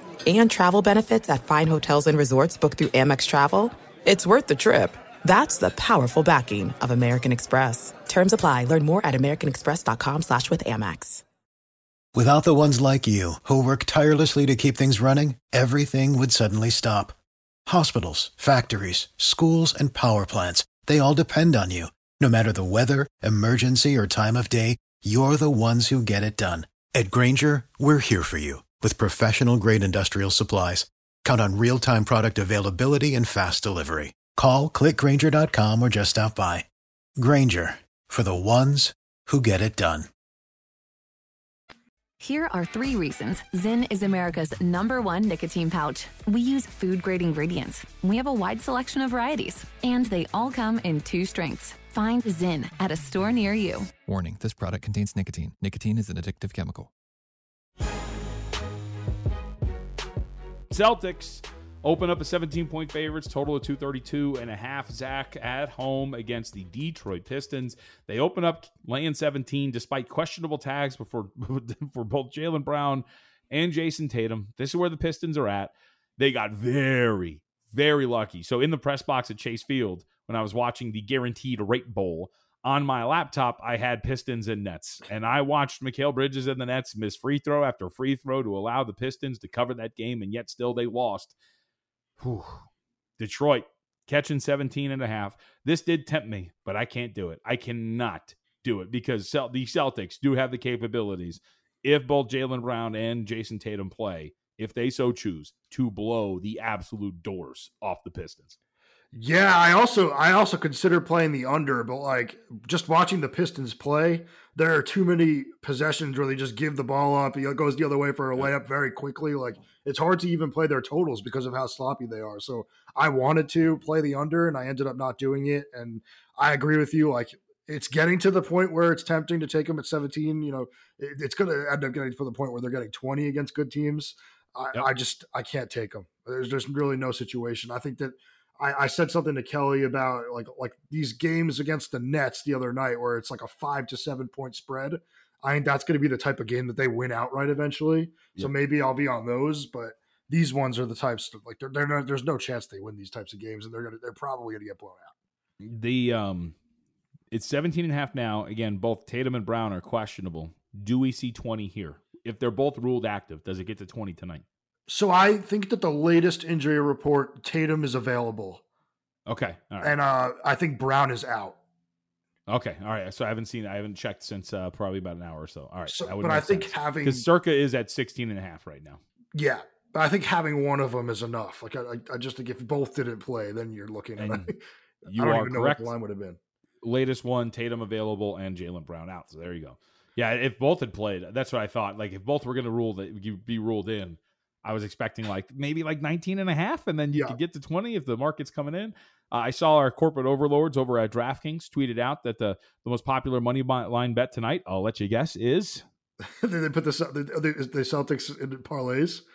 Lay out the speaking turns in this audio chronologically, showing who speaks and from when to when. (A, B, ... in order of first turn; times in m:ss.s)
0:00.2-0:11.2 A
0:12.1-0:17.1 B
0:17.7-0:36.6 B
0:37.2-0:40.1 B
0:42.2-0:53.9 C
0:54.0-0:56.9 D
1:00.7-1:31.4 E
1:32.2-1:32.6 E
1:33.2-1:48.6 E
1:49.1-2:35.1 F
2:35.6-2:36.6 E
2:37.3-2:44.4 E
2:44.9-2:48.6 F
2:49.3-2:50.0 E
2:49.8-2:51.6 F
2:52.5-2:59.0 E
2:55.9-2:57.2 F
2:59.3-3:06.4 F
3:04.2-3:04.5 E
3:05.1-3:05.9 E
3:06.8-3:25.8 E
3:26.3-3:29.2 F